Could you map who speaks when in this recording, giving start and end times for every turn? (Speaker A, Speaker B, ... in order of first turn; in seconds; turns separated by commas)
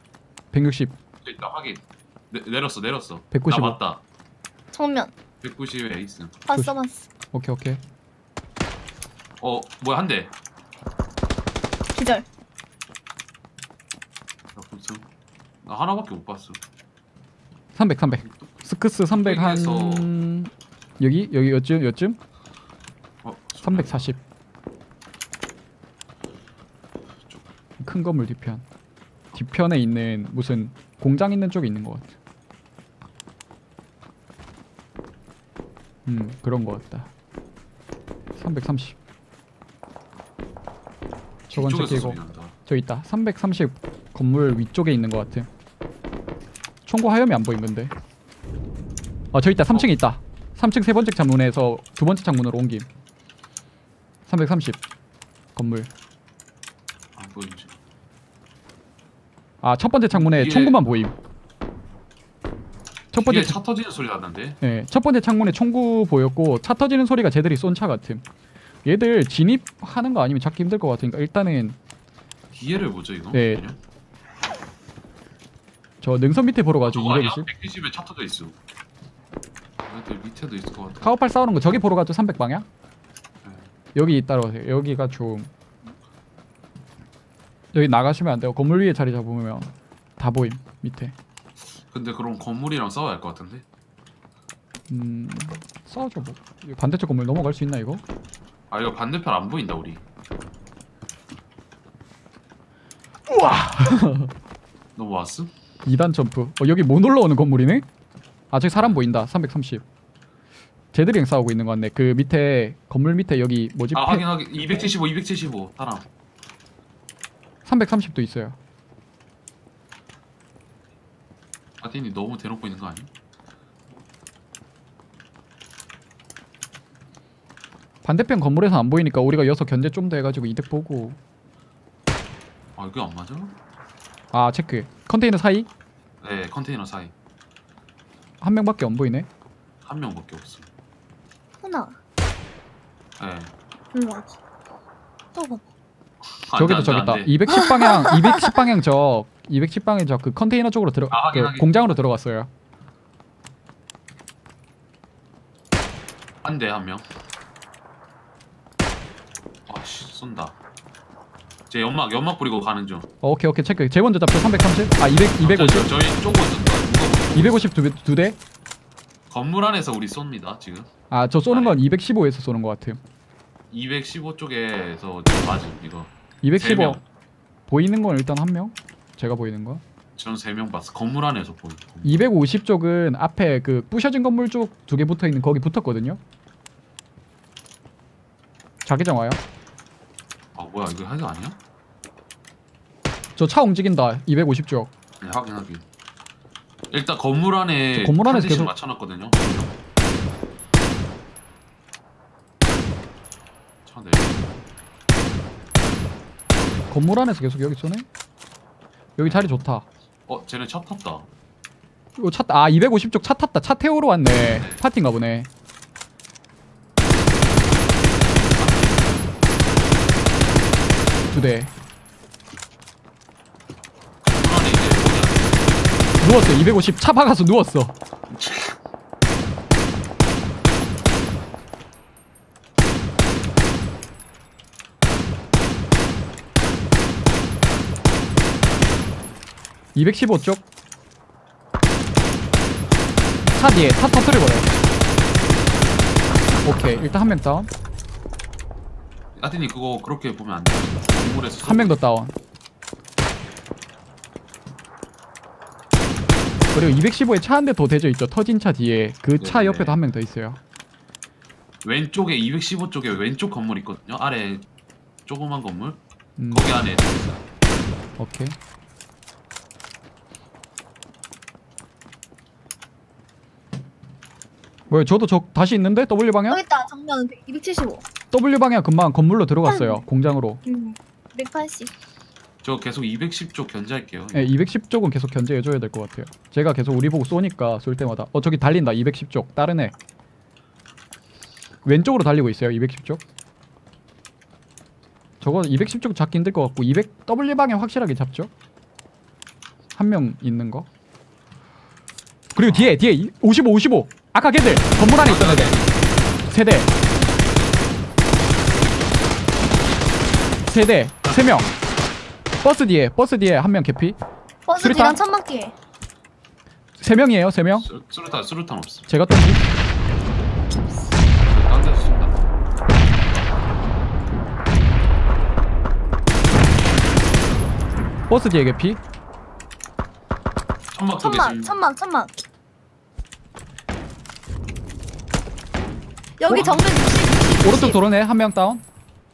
Speaker A: 0.5-0.9, Speaker B: 1.2-4.0, Speaker A: 3.3-3.8, Speaker C: 4.7-5.1, Speaker B: 5.4-6.3, Speaker C: 6.5-7.1, Speaker A: 7.3-7.8, Speaker B: 9.4-10.3, Speaker C: 11.9-12.2, Speaker B: 14.5-15.1, Speaker B: 15.6-16.6, Speaker A: 17.7-22.2, Speaker B: 18.0-18.5, Speaker B: 19.1-20.1, Speaker B: 23.2-24.1, Speaker A: 23.6-24.2, Speaker A: 27.8-28.6, Speaker A: 29.3-32.1, Speaker A: 36.0-37.1, Speaker A: 38.4-39.0, Speaker A: 41.5-45.5, Speaker B: 41.5-42.5, Speaker A: 46.9-47.9, Speaker A: 49.3-52.9, Speaker A: 54.2-54.8, Speaker A: 55.5-55.9, Speaker B: 57.1-57.7, Speaker A: 59.6-61.1, Speaker B: 60.1-60.8, Speaker A: 63.1-63.6, Speaker B: 63.2-64.6, Speaker A: 64.6-68.2, Speaker A: 68.8-71.8, Speaker B: 72.5-73.8, Speaker A: 73.3-73.6, Speaker A: 76.0-77.5, Speaker B: 76.8-78.5, Speaker B: 79.8-81.8, Speaker A: 81.0-82.7, Speaker B: 83.4-83.7, Speaker A: 83.9-85.5, Speaker A: 87.7-91.2, Speaker B: 91.6-93.6, Speaker A: 94.9-98.0, Speaker B: 98.7-100.0, Speaker A: 103.3-104.3, Speaker B: 105.0-105.5, Speaker A: 105.8-107.9, Speaker A: 108.5-109.8, Speaker A: 110.9-114.2, Speaker B: 113.9-116.1, Speaker A: 117.6-118.6, Speaker B: 121.8-123.1, Speaker A: 128.0-131.2, Speaker B: 132.8-133.5, Speaker A: 134.3-135.7, Speaker B: 136.2-137.1, Speaker A: 138.4-139.3, Speaker B: 139.8-140.7, Speaker C: 141.6-142.0, Speaker B: 143.2-143.5, Speaker C: 143.9-144.3, Speaker C: 145.3-145.6, Speaker B: 146.4-147.4, Speaker A: 146.5-152.5, Speaker C: 147.5-148.5, Speaker B: 151.1-152.0, Speaker B: 156.4-157.0, Speaker B: 159.7-160.5, Speaker B: 161.7-163.1, Speaker A: 163.2-165.9, Speaker B: 165.4-167.7, Speaker A: 167.3-168.4, Speaker B: 169.3-170.9, Speaker A: 171.1-173.0, Speaker B: 171.5-171.8, Speaker B: 173.7-177.0, Speaker A: 176.4-177.0, Speaker A: 177.7-179.8, Speaker B: 180.2-182.3, Speaker A: 182.0-186.2, Speaker A: 188.8-189.4, Speaker B: 190.6-191.6, Speaker A: 193.3-194.9, Speaker B: 195.2-195.8, Speaker B: 196.9-199.7, Speaker A: 197.9-198.7, Speaker B: 203.8-204.6, Speaker B: 206.6-206.8, Speaker A: 206.9-208.1, Speaker A: 209.2-209.8, Speaker B: 209.2-209.5, Speaker B: 210.3-211.3, Speaker A: 212.2-215.5, Speaker B: 214.6-214.8, Speaker B: 218.5-219.4, Speaker A: 221.3-221.7, Speaker B: 224.3-225.8, Speaker A: 226.2-227.9, Speaker B: 228.3-228.8, Speaker A: 239.9-240.6, Speaker A: 243.5-244.7, Speaker A: 246.6-247.7, Speaker B: 249.4-252.0, Speaker A: 251.6-252.3, Speaker A: 256.7-260.6, Speaker B: 259.4-260.0, Speaker B: 261.8-264.6, Speaker B: 265.2-266.0, Speaker A: 266.4-266.7, Speaker B: 266.5-267.4, Speaker A: 268.2-268.6, Speaker A: 274.9-276.6, Speaker C: 276.5-278.0, Speaker A: 278.3-280.6, Speaker C: 279.6-280.0, Speaker C: 280.6-281.9, Speaker B: 282.6-284.6, Speaker A: 284.3-289.9, Speaker A: 291.8-293.2, Speaker A: 295.4-298.5, Speaker A: 299.9-300.9, Speaker A: 302.5-305.8, Speaker B: 302.6-303.0, Speaker B: 305.1-306.1, Speaker A: 306.4-306.9, Speaker A: 310.7-311.7, Speaker A: 312.6-314.2, Speaker C: 314.7-315.7, Speaker A: 314.8-315.2, Speaker A: 317.0-317.9, Speaker B: 317.7-319.1, Speaker A: 319.1-319.6, Speaker C: 320.9-321.2, Speaker B: 321.4-322.4, Speaker A: 328.3-329.0, Speaker B: 330.9-331.8, Speaker C: 331.2-332.3, Speaker C: 336.4-338.0, Speaker A: 336.5-336.7, Speaker B: 336.5-336.8, Speaker A: 337.6-338.8